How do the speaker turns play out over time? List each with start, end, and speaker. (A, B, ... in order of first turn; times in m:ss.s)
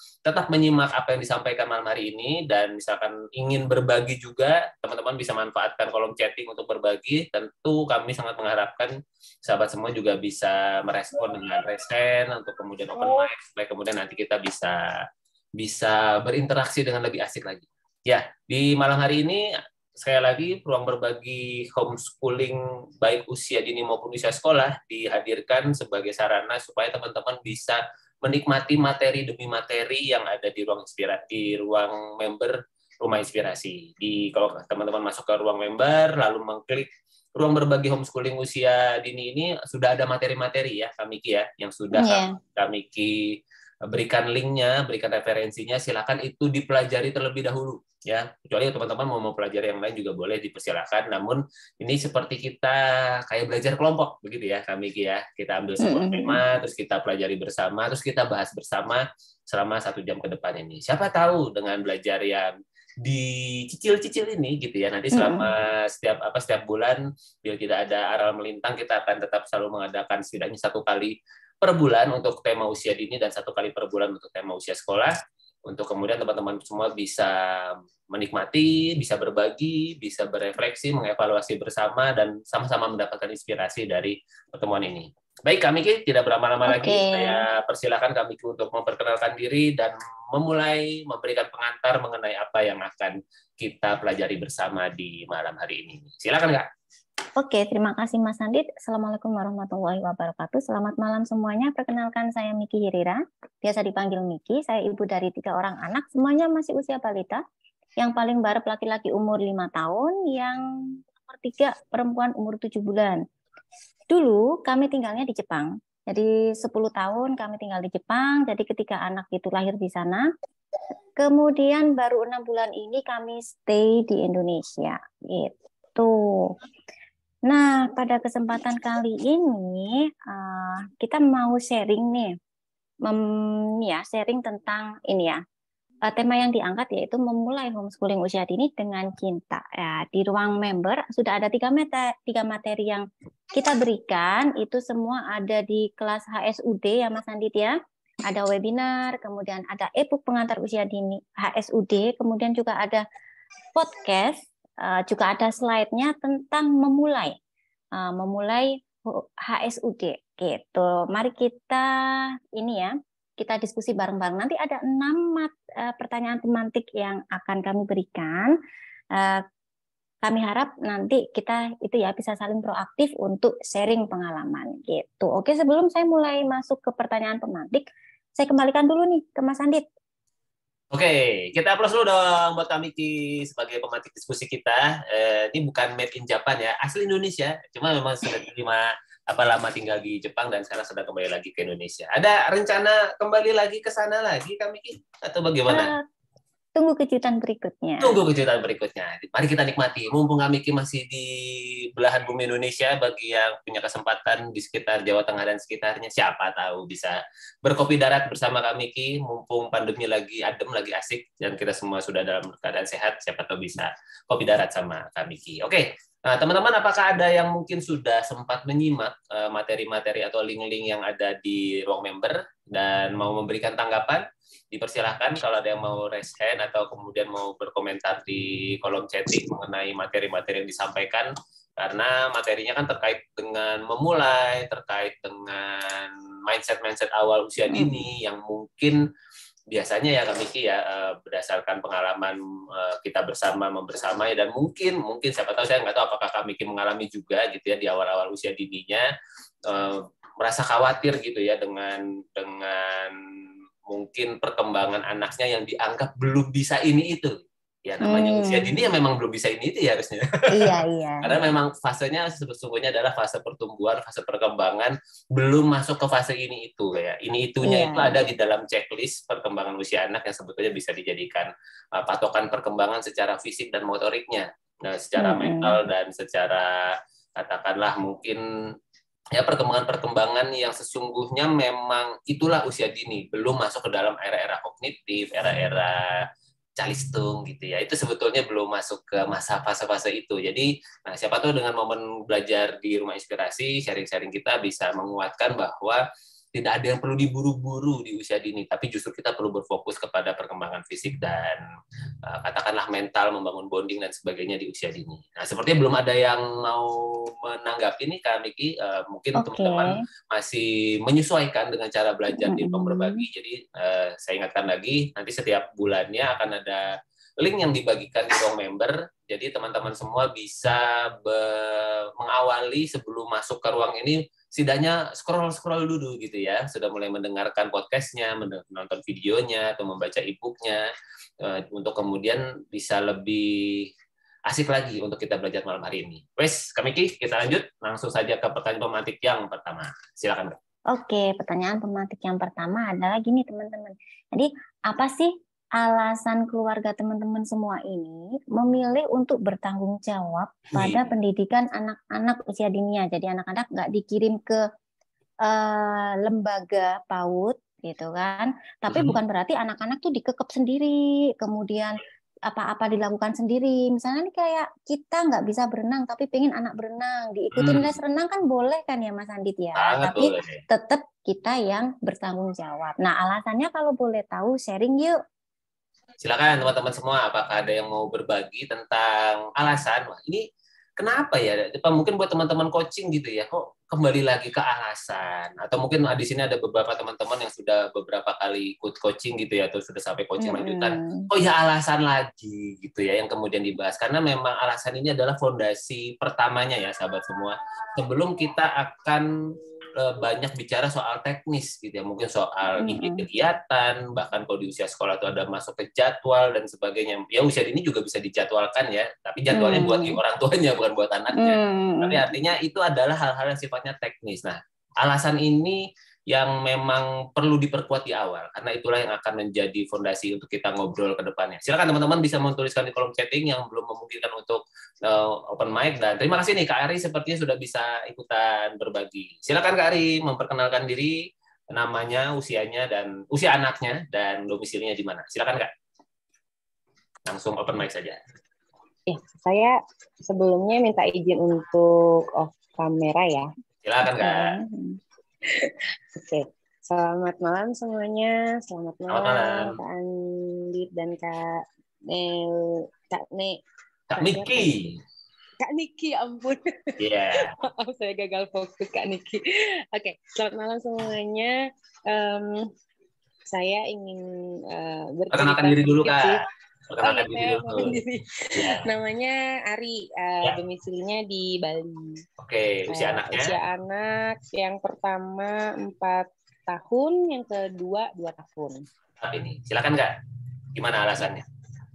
0:00.3-0:08.9 A
0:09.4-0:14.8 A
0:15.6-0:19.4 A
0:20.0-0:43.2 A
0:41.9-0:42.4 B
0:43.9-1:02.5 A
0:55.8-0:56.4 B
1:03.0-1:15.1 A
1:05.1-1:05.5 B
1:15.7-1:36.7 A
1:26.6-1:27.4 B
1:37.4-1:47.4 B
1:48.0-1:53.2 B
1:54.1-2:00.3 B
2:01.2-2:06.6 B
2:07.5-2:12.3 B
2:13.0-2:15.4 B
2:16.1-2:33.0 B
2:33.8-2:37.4 B
2:38.0-2:41.9 B
2:42.6-2:48.6 B
2:49.1-2:49.4 B
2:50.2-2:57.9 B
2:58.4-2:59.9 B
3:00.9-3:15.9 A
3:15.7-3:16.0 B
3:16.8-3:18.2 B
3:18.0-3:59.0 A
3:57.7-3:58.0 B
3:59.7-4:09.0 A
4:09.7-4:13.2 A
4:13.9-4:38.4 A
4:18.0-4:18.8 B
4:20.5-4:21.4 B
4:27.6-4:28.2 B
4:35.2-4:35.8 B
4:39.4-4:46.3 A
4:46.8-4:56.0 A
4:56.6-5:01.6 A
5:02.2-5:06.9 A
5:07.4-5:16.9 A
5:09.4-5:09.9 B
5:12.3-5:13.2 B
5:17.4-5:30.9 A
5:31.4-5:33.9 A
5:34.5-5:40.6 A
5:40.9-5:54.6 B
5:50.7-5:51.1 A
5:55.4-6:15.2 B
5:58.9-5:59.2 A
6:07.5-6:07.9 A
6:09.8-6:10.6 A
6:16.2-6:20.4 A
6:21.0-6:39.3 A
6:30.4-6:31.3 B
6:40.0-7:11.2 A
6:42.8-6:43.2 B
6:49.5-6:50.2 B
6:51.3-6:52.2 B
7:11.7-7:15.7 A
7:17.3-7:18.2 A
7:19.1-7:19.8 C
7:20.3-7:23.5 C
7:23.8-7:24.5 A
7:24.2-7:25.0 B
7:25.6-7:33.6 C
7:29.1-7:29.8 A
7:34.1-7:35.0 A
7:34.2-7:34.8 C
7:35.6-7:36.9 C
7:37.0-7:37.5 A
7:37.7-7:39.4 C
7:40.0-7:41.5 C
7:42.1-7:42.7 C
7:43.5-7:46.4 C
7:45.3-7:46.4 A
7:46.9-7:48.0 A
7:47.0-7:52.2 C
7:52.4-7:53.6 A
7:52.9-7:58.8 C
7:59.2-8:00.1 A
8:00.8-8:01.4 A